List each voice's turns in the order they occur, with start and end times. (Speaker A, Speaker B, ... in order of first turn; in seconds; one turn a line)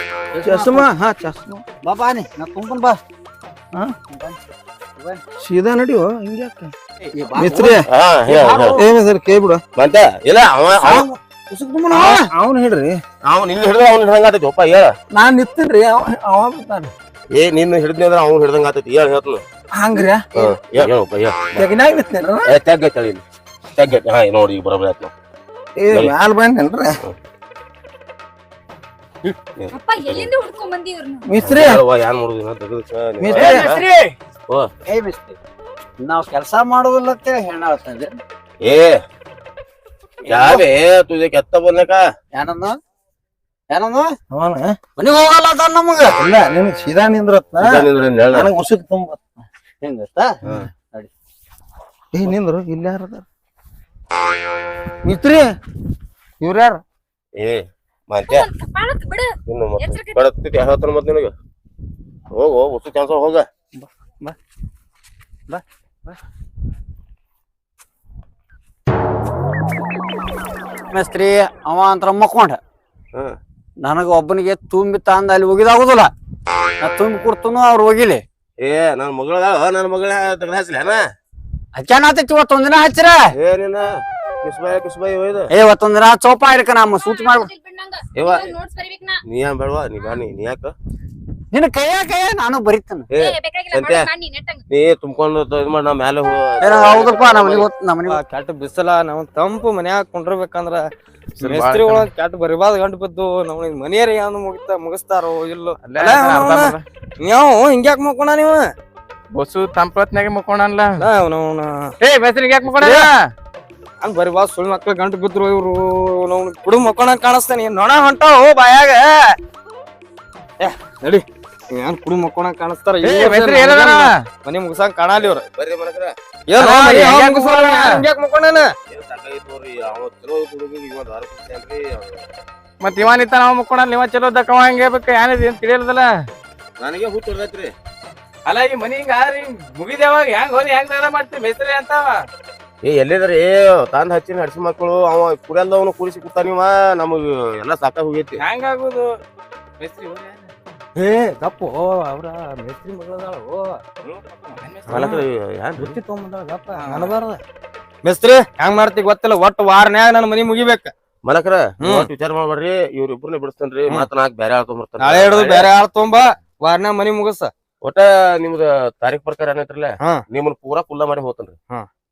Speaker A: 0.3-0.8
Speaker B: 0.4-1.6
Speaker A: 1.8-3.0
Speaker A: 4.1-4.4
Speaker B: 5.4-6.7
Speaker A: 7.1-8.8
Speaker B: 7.4-7.8
Speaker C: 7.9-8.8
Speaker B: 8.7-9.6
Speaker C: 9.7-11.1
Speaker B: 10.8-11.2
Speaker A: 11.5-12.3
Speaker B: 11.9-13.0
Speaker C: 13.2-14.9
Speaker B: 15.1-16.9
Speaker C: 17.3-19.4
Speaker B: 19.7-20.5
Speaker C: 20.4-21.7
Speaker B: 21.5-22.5
Speaker C: 22.4-23.2
Speaker C: 23.8-25.1
Speaker B: 25.8-27.0
Speaker C: 29.6-30.3
Speaker D: 29.7-31.3
Speaker B: 31.2-31.8
Speaker C: 31.4-33.8
Speaker B: 33.2-33.7
Speaker E: 33.4-33.8
Speaker A: 34.9-35.4
Speaker A: 36.0-38.2
Speaker C: 38.6-39.0
Speaker A: 40.3-40.6
Speaker C: 40.3-42.0
Speaker A: 42.3-42.8
Speaker A: 43.7-44.1
Speaker B: 44.3-44.8
Speaker A: 45.0-46.2
Speaker B: 46.1-49.2
Speaker C: 47.6-48.5
Speaker A: 49.8-51.1
Speaker B: 52.1-53.2
Speaker B: 55.0-55.5
Speaker B: 56.4-56.8
Speaker C: 57.4-58.5
Speaker D: 58.3-60.2
Speaker C: 59.5-61.3
Speaker C: 62.3-63.5
Speaker A: 63.8-64.3
Speaker A: 65.5-66.2
Speaker A: 70.9-72.6
Speaker A: 73.8-76.1
Speaker A: 76.8-78.2
Speaker C: 78.6-81.0
Speaker A: 81.7-83.3
Speaker C: 83.4-85.5
Speaker A: 85.5-87.5
Speaker D: 87.0-89.2
Speaker C: 88.2-88.5
Speaker C: 89.2-90.7
Speaker D: 89.9-90.2
Speaker A: 91.5-93.1
Speaker C: 93.1-94.1
Speaker D: 93.2-94.6
Speaker C: 94.7-97.7
Speaker A: 96.6-98.2
Speaker F: 98.1-100.8
Speaker E: 101.4-102.1
Speaker F: 101.4-108.7
Speaker E: 105.8-106.8
Speaker E: 109.3-111.0
Speaker F: 111.0-111.9
Speaker E: 112.0-113.3
Speaker F: 112.6-113.1
Speaker F: 114.0-119.4
Speaker F: 120.6-125.4
Speaker E: 123.0-124.2
Speaker C: 125.1-126.1
Speaker F: 126.5-128.7
Speaker E: 126.6-128.0
Speaker C: 128.9-132.2
Speaker E: 132.8-136.2
Speaker C: 136.8-137.7
Speaker E: 138.4-142.2
Speaker C: 142.8-148.4
Speaker E: 148.4-149.1
Speaker E: 149.8-150.5
Speaker F: 150.9-153.8
Speaker E: 154.1-155.2
Speaker C: 154.9-156.0
Speaker F: 155.8-157.4
Speaker E: 156.7-157.1
Speaker F: 158.0-160.9
Speaker C: 161.2-165.7
Speaker F: 161.8-162.1
Speaker F: 165.0-167.5
Speaker C: 167.8-171.6